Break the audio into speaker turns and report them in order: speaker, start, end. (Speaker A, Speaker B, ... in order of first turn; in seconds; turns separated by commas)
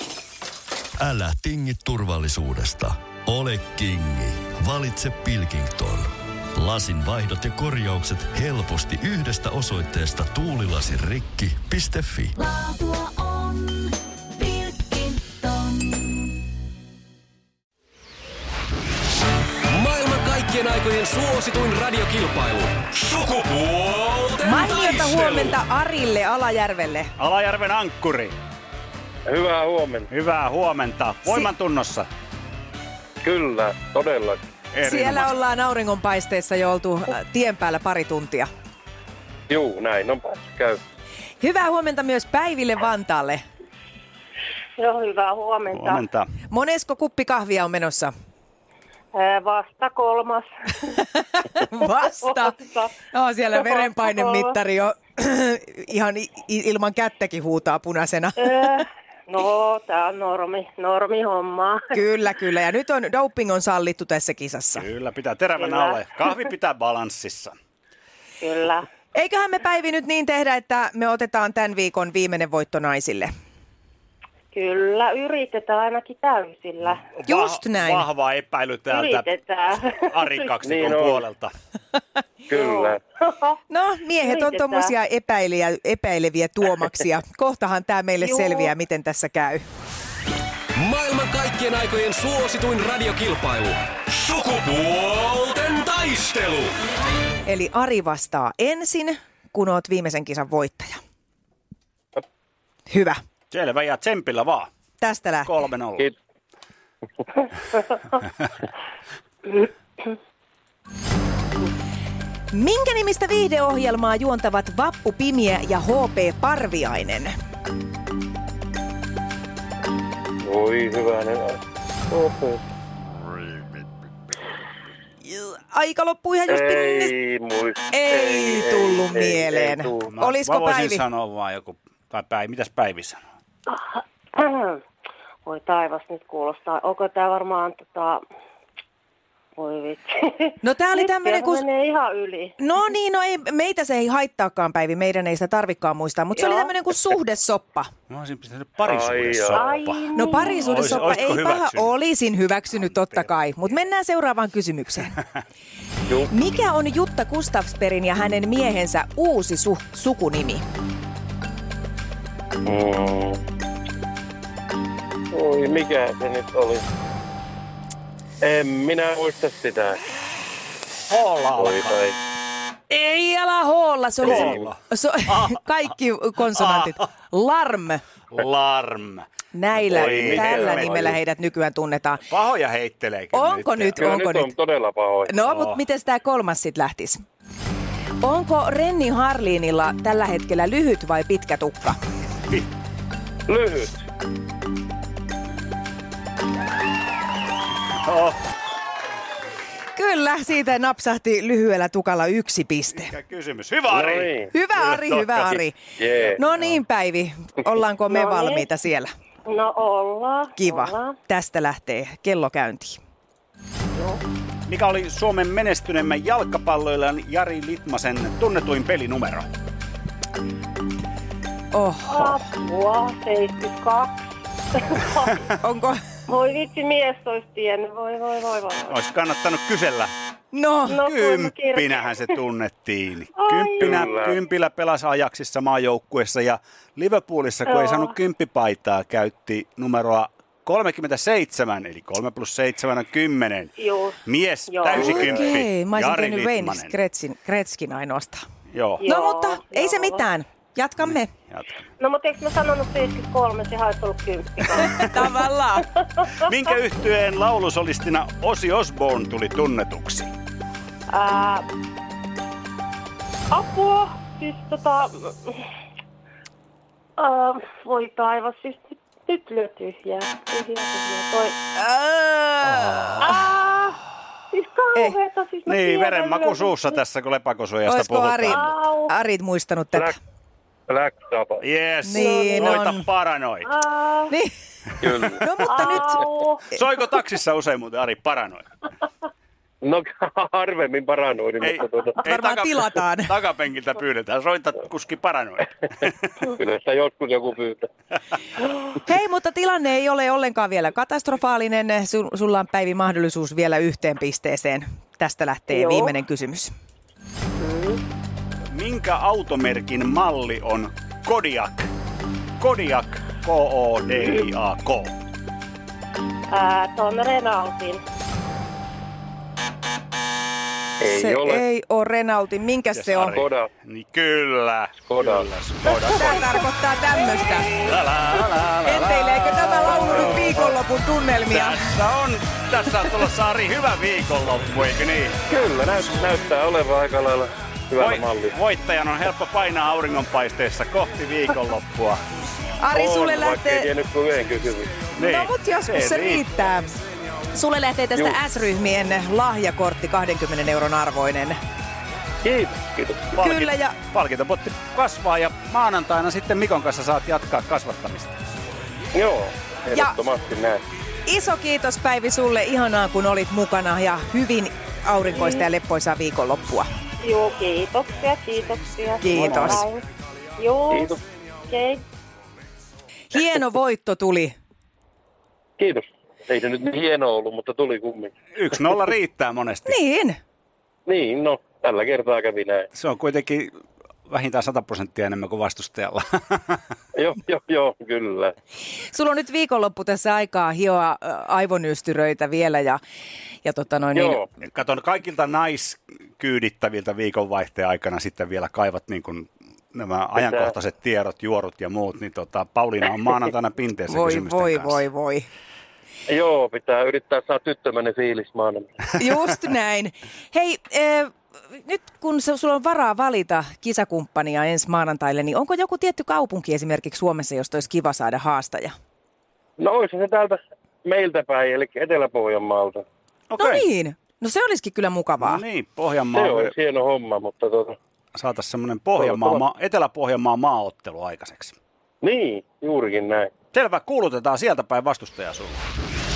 Speaker A: 1.0-12.4, Speaker B: 12.5-13.8, Speaker B: 14.5-15.3, Speaker C: 19.7-25.5, Speaker D: 24.4-27.1, Speaker E: 27.2-28.3, Speaker F: 29.2-30.1, Speaker E: 30.1-32.1, Speaker F: 33.2-34.4, Speaker E: 34.7-35.4, Speaker D: 34.8-38.5, Speaker F: 39.5-40.8, Speaker D: 41.4-43.4, Speaker G: 44.8-46.0, Speaker E: 45.7-46.3, Speaker D: 46.5-48.1, Speaker G: 49.1-51.1, Speaker D: 51.1-52.5, Speaker G: 51.8-52.9, Speaker D: 53.1-58.5, Speaker G: 53.5-54.6, Speaker G: 58.4-61.9, Speaker D: 61.9-64.9, Speaker E: 64.8-67.5, Speaker G: 65.6-66.0, Speaker G: 68.4-68.8, Speaker D: 69.1-73.3, Speaker G: 74.5-77.0, Speaker E: 77.1-79.3, Speaker D: 77.3-78.1, Speaker G: 78.9-80.5, Speaker E: 80.0-81.5, Speaker F: 80.6-81.2, Speaker F: 82.5-83.0, Speaker G: 82.5-83.6, Speaker D: 83.7-89.6, Speaker G: 84.2-84.9, Speaker G: 88.2-88.7, Speaker C: 90.8-96.7, Speaker D: 97.5-101.0, Speaker D: 102.9-103.2, Speaker E: 103.5-104.7, Speaker D: 105.0-105.7, Speaker E: 105.5-106.1, Speaker D: 112.5-117.3, Speaker F: 120.4-122.6, Speaker E: 123.4-123.7, Speaker D: 125.2-127.1, Speaker F: 126.5-130.1, Speaker D: 127.9-131.0, Speaker E: 130.1-133.2, Speaker G: 133.7-134.8, Speaker G: 135.4-138.2, Speaker G: 139.6-142.6, Speaker D: 140.6-141.7, Speaker D: 142.6-147.9, Speaker G: 146.4-146.7, Speaker E: 148.1-151.9, Speaker F: 148.8-149.7, Speaker G: 149.5-151.2, Speaker D: 150.2-155.2, Speaker D: 156.3-160.6, Speaker F: 162.7-163.4, Speaker F: 165.3-166.8, Speaker F: 168.4-170.0, Speaker E: 171.1-172.0, Speaker F: 171.6-172.2, Speaker D: 172.9-178.0, Speaker E: 174.2-175.6, Speaker F: 174.3-174.6, Speaker E: 176.5-177.0, Speaker E: 178.3-179.3, Speaker D: 179.5-182.3, Speaker E: 179.8-181.2, Speaker F: 179.9-181.2, Speaker E: 182.3-184.1, Speaker D: 183.3-184.5, Speaker F: 184.0-185.3, Speaker D: 185.3-187.2, Speaker E: 185.4-185.8, Speaker D: 188.2-192.0, Speaker F: 193.5-194.0, Speaker E: 198.0-198.4, Speaker D: 199.9-203.1, Speaker E: 202.9-205.6, Speaker F: 203.9-204.5, Speaker D: 204.5-205.8, Speaker F: 206.0-206.4, Speaker D: 206.4-209.1, Speaker G: 208.1-208.7, Speaker G: 209.5-211.2, Speaker D: 210.6-213.0, Speaker G: 214.0-214.2, Speaker E: 214.7-219.5, Speaker D: 221.7-222.4, Speaker G: 222.1-225.4, Speaker D: 225.5-226.0, Speaker G: 226.3-229.0, Speaker E: 228.9-230.1, Speaker D: 230.5-231.0, Speaker G: 230.9-232.3, Speaker E: 231.0-243.7, Speaker G: 233.3-234.1, Speaker F: 233.8-234.4, Speaker G: 237.7-238.1, Speaker G: 243.8-245.5, Speaker E: 244.2-246.9, Speaker D: 244.9-248.4, Speaker E: 248.7-249.1, Speaker G: 249.0-250.3, Speaker D: 249.1-251.3, Speaker E: 251.1-251.7, Speaker G: 252.0-255.2, Speaker D: 254.7-255.9, Speaker G: 256.0-256.3, Speaker E: 256.4-260.3, Speaker G: 261.1-261.7, Speaker G: 263.5-265.6, Speaker G: 267.2-271.6, Speaker D: 271.8-273.2, Speaker E: 272.6-273.4, Speaker G: 273.2-274.0, Speaker G: 274.5-277.0, Speaker E: 275.7-278.7, Speaker D: 277.9-280.1, Speaker G: 278.5-279.1, Speaker F: 280.9-281.6, Speaker E: 281.6-283.7, Speaker D: 282.0-283.1, Speaker G: 282.1-282.8, Speaker G: 283.6-284.3, Speaker D: 284.3-284.6, Speaker F: 285.0-285.9, Speaker D: 285.3-286.2, Speaker G: 285.7-286.6, Speaker E: 286.7-288.6, Speaker F: 289.8-292.2, Speaker E: 291.6-296.3, Speaker D: 292.2-293.3, Speaker F: 296.5-297.9, Speaker D: 299.0-306.7, Speaker G: 305.7-306.2, Speaker G: 307.6-308.0, Speaker E: 308.7-311.9, Speaker E: 312.6-315.2, Speaker G: 316.5-318.0, Speaker F: 321.0-321.6, Speaker D: 321.1-323.4, Speaker E: 322.9-326.6, Speaker F: 323.3-323.7, Speaker F: 325.0-325.5, Speaker D: 326.1-327.8, Speaker E: 327.7-330.6, Speaker D: 328.8-331.9, Speaker F: 329.9-330.7, Speaker E: 331.5-335.4, Speaker F: 335.5-338.6, Speaker E: 338.0-342.2, Speaker D: 342.8-343.9, Speaker F: 342.9-345.0, Speaker E: 345.1-346.4, Speaker D: 345.2-346.9, Speaker D: 347.5-351.6, Speaker F: 352.4-353.3, Speaker E: 353.4-358.4, Speaker D: 353.4-353.9, Speaker F: 359.1-360.8, Speaker D: 361.3-366.9, Speaker G: 367.2-370.0, Speaker D: 369.2-369.9, Speaker G: 370.6-372.0, Speaker F: 370.9-371.2, Speaker D: 373.3-374.5, Speaker F: 375.8-378.3, Speaker E: 378.6-380.0, Speaker D: 379.9-380.4, Speaker F: 381.1-382.9, Speaker E: 382.9-383.7, Speaker E: 384.3-386.8, Speaker F: 387.1-388.5, Speaker D: 389.1-393.0, Speaker D: 393.6-394.4, Speaker F: 394.1-394.4, Speaker E: 394.7-405.0, Speaker F: 400.4-400.7, Speaker D: 404.1-405.5, Speaker F: 406.3-409.1, Speaker D: 409.2-418.9, Speaker F: 419.8-423.0, Speaker E: 423.5-423.9, Speaker D: 423.6-425.6, Speaker E: 425.4-426.8, Speaker F: 426.3-427.9, Speaker E: 428.4-431.8, Speaker F: 429.2-429.6, Speaker F: 432.2-433.5, Speaker E: 433.7-435.8